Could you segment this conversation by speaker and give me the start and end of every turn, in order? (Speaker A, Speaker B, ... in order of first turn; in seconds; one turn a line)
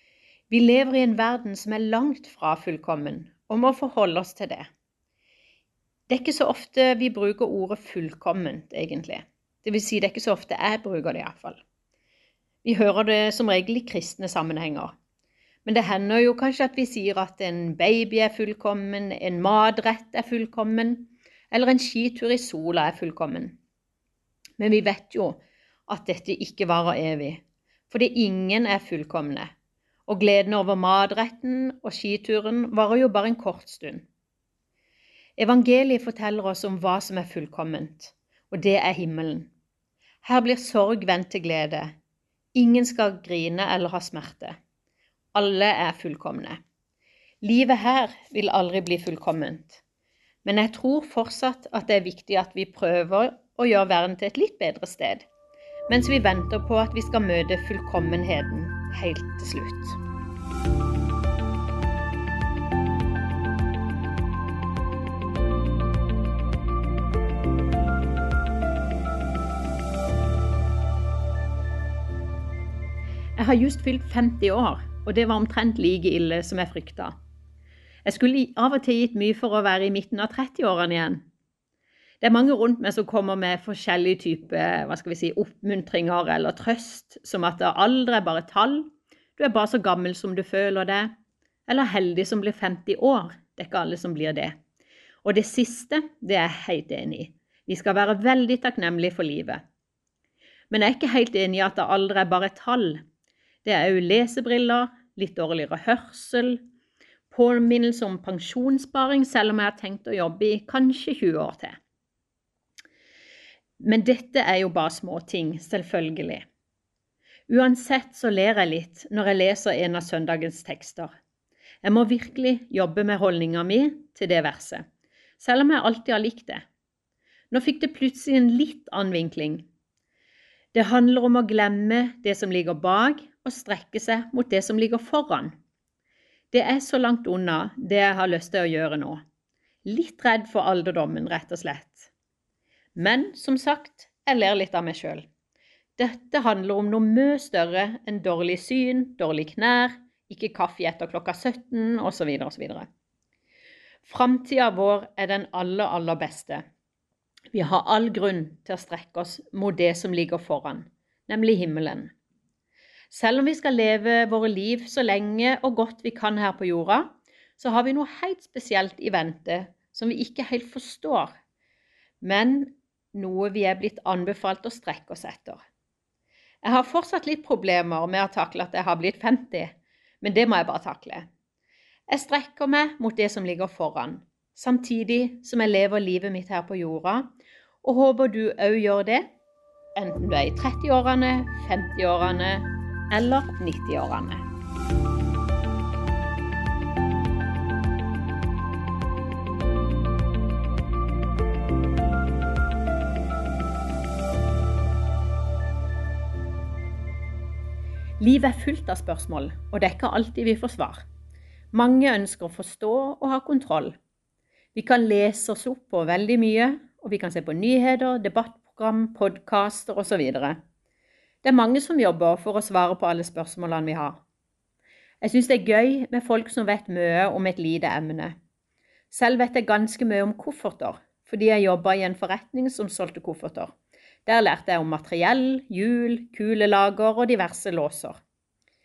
Speaker A: 0.5-4.7
Speaker A: 6.1-11.6
Speaker A: 12.6-14.9
Speaker A: 15.7-23.6
Speaker A: 24.6-29.5
Speaker A: 30.1-34.0
Speaker A: 35.4-39.5
Speaker A: 40.2-41.9
Speaker A: 42.5-44.6
Speaker A: 45.3-46.6
Speaker A: 47.4-49.8
Speaker A: 50.4-55.2
Speaker A: 55.9-60.0
Speaker A: 73.3-77.2
Speaker A: 78.0-81.2
Speaker A: 82.2-91.1
Speaker A: 91.7-94.5
Speaker A: 95.2-99.6
Speaker A: 100.7-103.0
Speaker A: 103.6-106.6
Speaker A: 107.3-111.8
Speaker A: 113.8-116.4
Speaker A: 117.5-121.1
Speaker A: 121.8-124.8
Speaker A: 125.4-126.6
Speaker A: 127.5-129.7
Speaker A: 130.7-135.5
Speaker A: 136.5-139.2
Speaker A: 139.8-142.1
Speaker A: 142.9-145.2
Speaker A: 146.0-152.9
Speaker A: 154.0-156.6
Speaker A: 157.5-162.1
Speaker A: 163.1-171.3
Speaker A: 172.2-175.6
Speaker A: 176.6-181.3
Speaker A: 182.1-187.3
Speaker A: 187.8-189.3
Speaker A: 190.0-194.4
Speaker A: 208.2-211.0
Speaker A: 211.7-213.9
Speaker A: 214.7-220.6
Speaker A: 221.4-224.2
Speaker A: 225.2-228.3
Speaker A: 229.1-233.7
Speaker A: 234.2-238.2